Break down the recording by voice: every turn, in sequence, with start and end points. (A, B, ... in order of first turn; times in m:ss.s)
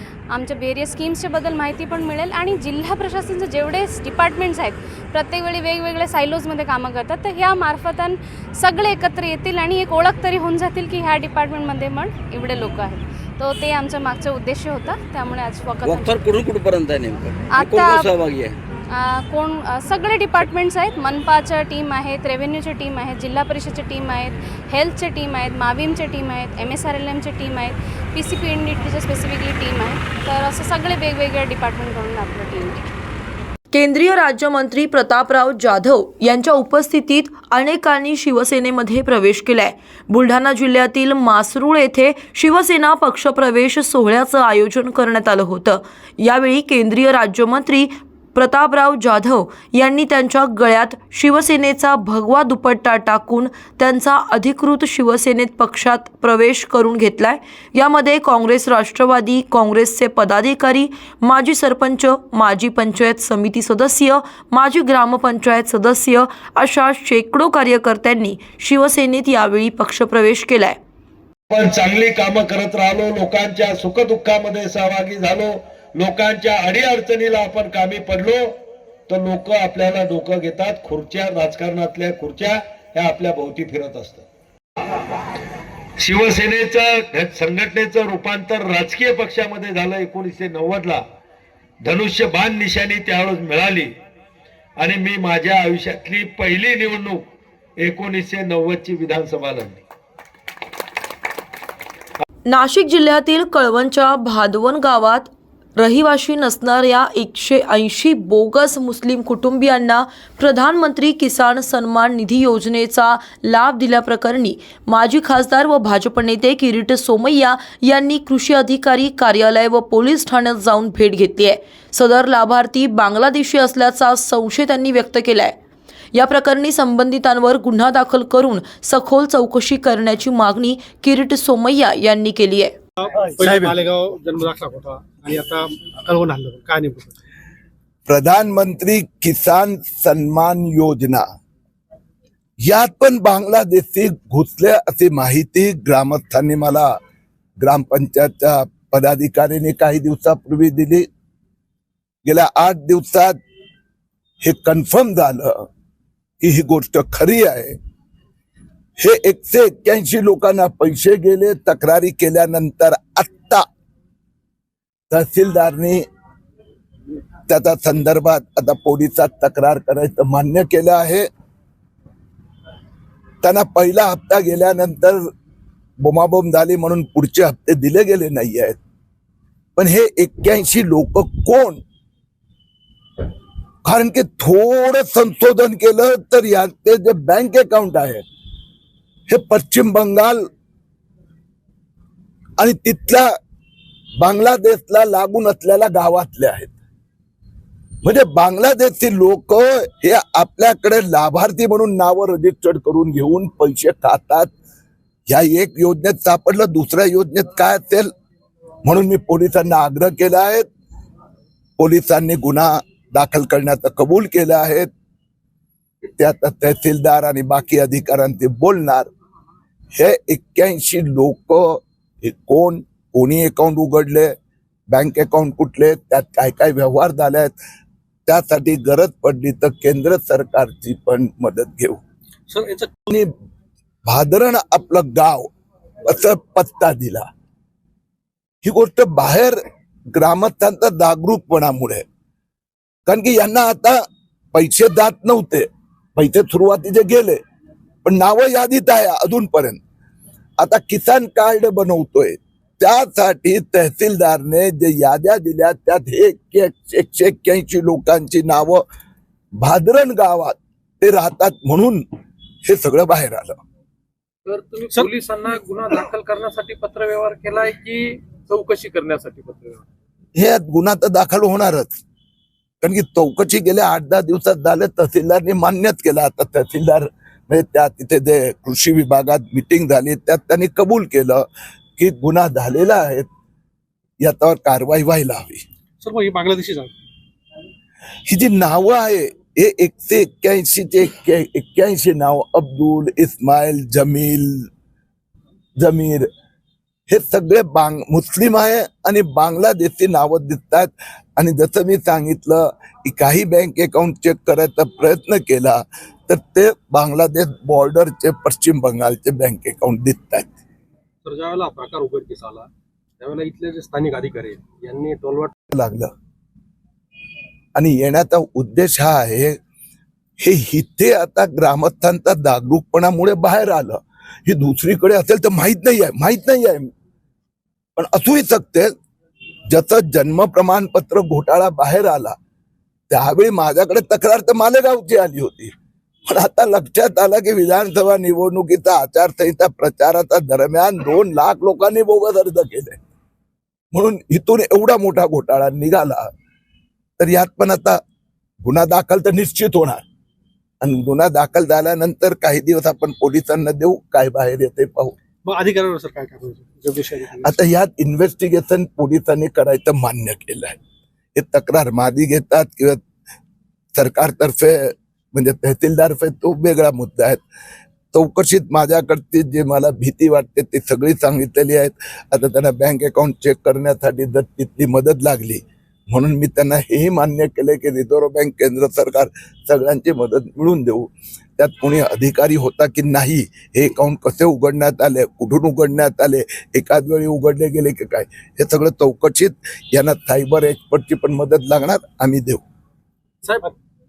0:00.3-0:16.3 A
0:16.0-0:18.5 B
0:17.5-0:18.2 A
0:18.9-0:32.8 A
0:33.7-1:10.8 C
1:11.5-1:18.5 D
1:19.1-1:24.2 D
1:26.0-1:31.0 D
1:31.8-1:33.9 D
1:34.8-1:37.2 D
1:37.8-1:39.8 D
1:42.5-2:05.6 C
2:06.1-2:12.8 C
2:13.0-2:17.1 E
2:18.1-2:21.2 F
2:22.6-2:27.0 F
2:27.6-2:31.1 F
2:32.2-2:33.4 F
2:34.4-2:35.7 F
2:36.4-2:37.8 F
2:39.0-2:43.6 F
2:45.1-2:46.0 F
2:47.5-2:51.3 F
2:53.4-2:55.3 F
2:56.0-2:58.8 F
2:59.8-3:01.8 F
3:03.8-3:08.2 F
3:09.3-3:10.5 F
3:12.6-3:13.3 F
3:14.2-3:16.7 F
3:18.0-3:24.5 F
3:25.3-3:28.1 F
3:28.8-3:30.7 F
3:31.8-3:34.9 F
3:36.1-3:39.1 F
3:39.9-3:44.4 F
3:44.9-3:47.6 F
3:48.2-3:52.0 F
3:52.5-3:52.9 E
3:53.1-3:53.3 F
3:54.0-3:55.5 F
3:56.0-3:57.3 F
3:58.6-3:59.6 F
4:00.1-4:02.0 F
4:03.0-4:07.4 F
4:08.0-4:09.8 F
4:10.6-4:18.8 F
4:19.6-4:22.0 F
4:22.6-4:23.6 F
4:24.7-4:26.2 E
4:27.4-4:27.9 E
4:30.3-4:32.0 F
4:32.8-4:41.4 F
4:42.0-4:43.3 F
4:44.2-4:45.6 F
4:46.0-4:46.9 E
4:48.3-4:54.7 F
4:55.8-4:56.3 F
4:57.1-5:10.5 F
5:11.2-5:12.6 E
5:13.2-5:15.5 E
5:15.7-5:16.1 F
5:17.7-5:19.6 F
5:20.4-5:26.9 F
5:28.0-5:28.9 F
5:29.7-5:32.4 F
5:33.1-5:35.7 F
5:36.2-5:43.0 F
5:43.9-5:46.3 F
5:47.2-5:48.0 F
5:48.6-5:50.0 F
5:50.8-5:55.1 F
5:55.4-5:57.6 E
5:57.4-6:00.8 F
6:01.3-6:03.0 F
6:03.9-6:07.4 F
6:08.1-6:32.6 F
6:33.4-6:33.7 E